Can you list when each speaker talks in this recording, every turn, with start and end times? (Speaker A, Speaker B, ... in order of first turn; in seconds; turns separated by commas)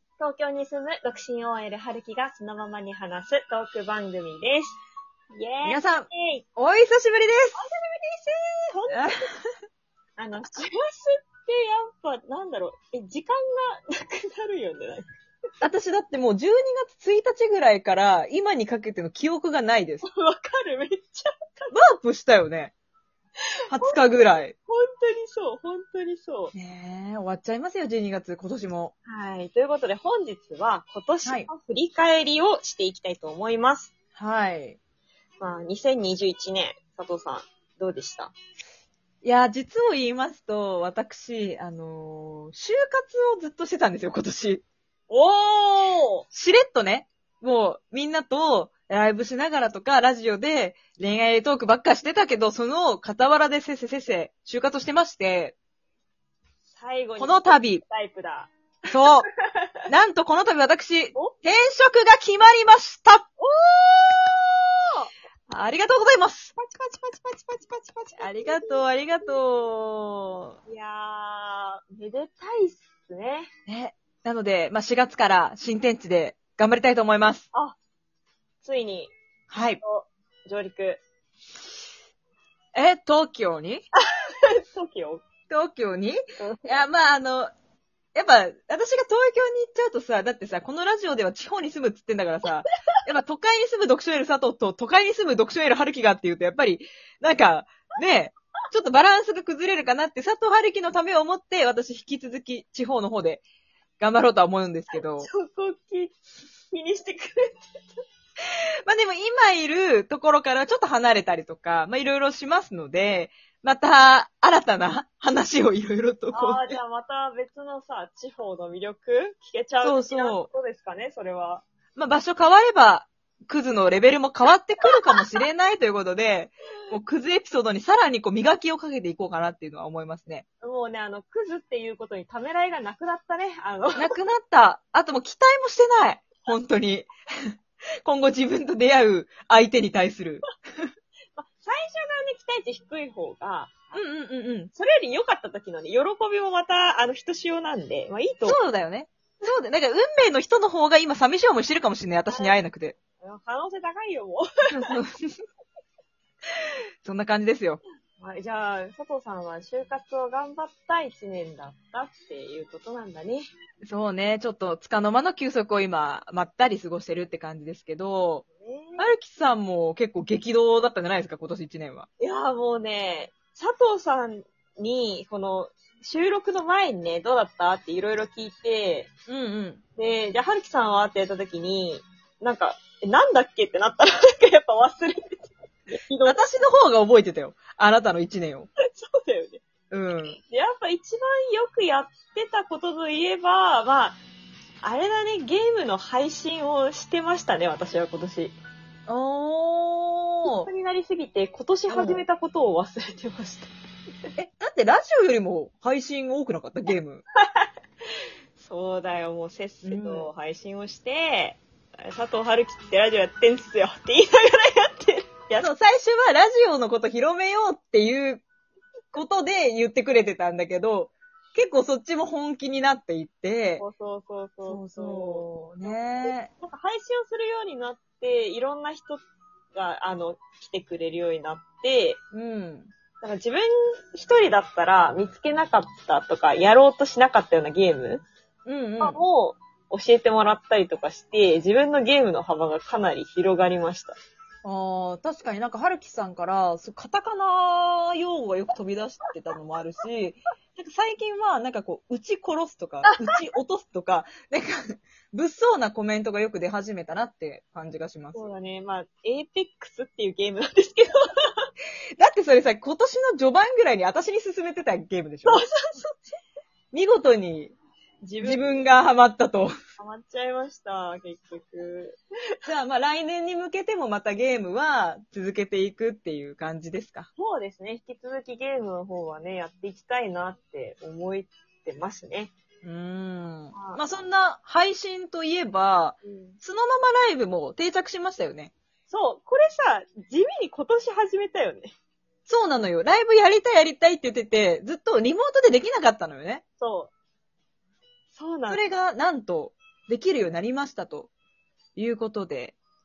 Speaker A: 0.2-4.8, Speaker A: 5.3-6.4, Speaker B: 5.6-7.6, Speaker A: 7.6-9.3, Speaker B: 8.9-9.4, Speaker A: 10.2-15.1, Speaker B: 15.6-20.1, Speaker A: 20.0-21.7, Speaker B: 21.7-22.7, Speaker B: 23.7-24.5, Speaker A: 24.6-26.5, Speaker B: 26.5-28.9, Speaker A: 29.1-33.9, Speaker B: 34.2-34.8, Speaker A: 35.4-38.3, Speaker B: 39.2-44.6, Speaker A: 45.1-46.3, Speaker B: 46.3-55.5, Speaker A: 56.7-58.5, Speaker B: 57.2-57.8, Speaker B: 58.9-59.3, Speaker A: 59.4-59.7, Speaker B: 59.9-63.2, Speaker A: 63.4-65.1, Speaker B: 65.5-66.5, Speaker A: 66.6-68.9, Speaker B: 68.2-70.6, Speaker A: 70.7-73.5, Speaker B: 73.7-77.5, Speaker A: 78.6-79.1, Speaker B: 79.5-79.8, Speaker A: 79.8-81.0, Speaker B: 82.8-83.8, Speaker A: 84.4-85.2, Speaker B: 85.5-87.5, Speaker A: 86.4-86.7, Speaker B: 88.1-103.4, Speaker B: 104.0-105.3, Speaker A: 105.2-106.2, Speaker A: 106.7-107.9, Speaker B: 108.9-116.8, Speaker A: 116.3-121.6, Speaker B: 119.8-120.5, Speaker B: 122.0-130.4, Speaker A: 130.6-134.2, Speaker B: 134.0-140.5, Speaker A: 141.4-144.0, Speaker B: 143.9-144.7, Speaker A: 144.7-148.6, Speaker B: 148.4-153.0, Speaker A: 152.3-152.6, Speaker A: 153.2-154.9, Speaker B: 154.7-155.4, Speaker B: 157.0-157.8, Speaker A: 158.2-163.5, Speaker B: 163.8-168.4, Speaker A: 168.6-169.1, Speaker B: 169.0-172.1, Speaker A: 172.2-179.1, Speaker B: 179.3-179.8, Speaker A: 180.0-186.4, Speaker B: 186.2-188.7, Speaker A: 188.8-189.6, Speaker B: 189.9-190.4, Speaker A: 190.5-194.2, Speaker A: 194.8-198.6, Speaker B: 199.1-200.7, Speaker A: 200.5-203.7, Speaker B: 201.9-202.2, Speaker B: 204.4-207.2, Speaker A: 208.6-215.7, Speaker B: 209.8-210.3, Speaker B: 215.6-218.4, Speaker B: 219.1-223.8, Speaker A: 223.8-229.2, Speaker B: 224.7-226.5, Speaker A: 229.7-232.2, Speaker B: 232.3-232.9, Speaker A: 233.2-238.2, Speaker B: 238.7-239.2, Speaker A: 239.0-244.2, Speaker B: 244.6-258.4, Speaker A: 258.4-261.7, Speaker B: 262.2-265.6, Speaker A: 265.5-266.2, Speaker B: 266.9-267.7, Speaker A: 268.2-268.8, Speaker B: 268.4-269.8, Speaker A: 270.0-272.2, Speaker B: 272.7-277.3, Speaker A: 277.4-282.5, Speaker B: 282.8-288.7, Speaker A: 283.7-284.0, Speaker A: 286.2-286.6, Speaker A: 289.1-291.9, Speaker B: 292.5-296.6, Speaker A: 296.8-297.1, Speaker A: 298.3-298.8, Speaker B: 298.7-301.3, Speaker B: 302.0-302.8